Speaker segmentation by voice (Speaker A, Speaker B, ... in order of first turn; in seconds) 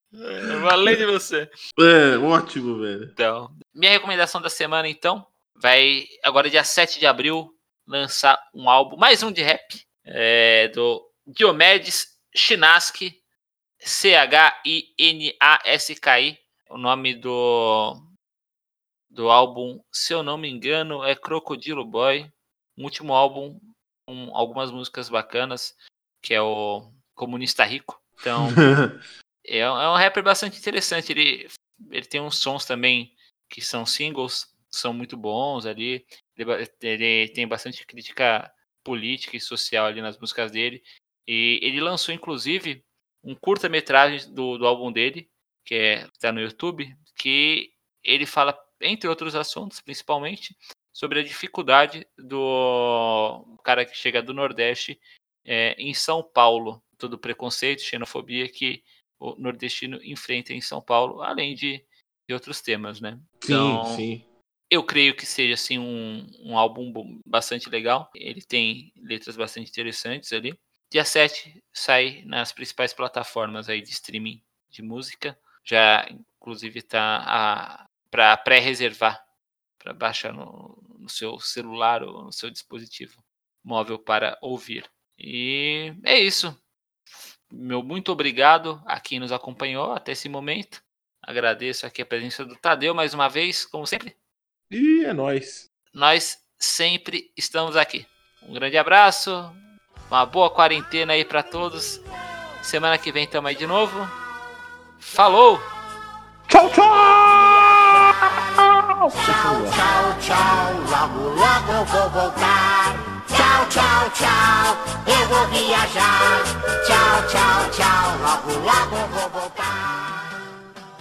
Speaker A: 0.2-1.0, 1.8-3.1, 28.3-29.0, 63.4-64.2, 94.7-95.7, 106.5-109.8
Speaker B: 0.5-1.5, 3.2-13.2, 13.8-18.0, 19.1-28.6, 29.4-64.0, 64.7-79.2, 79.8-86.5, 87.5-94.1, 95.9-99.6, 100.1-102.0, 102.6-104.2, 105.0-105.6
Speaker C: 107.1-108.3, 109.1-120.3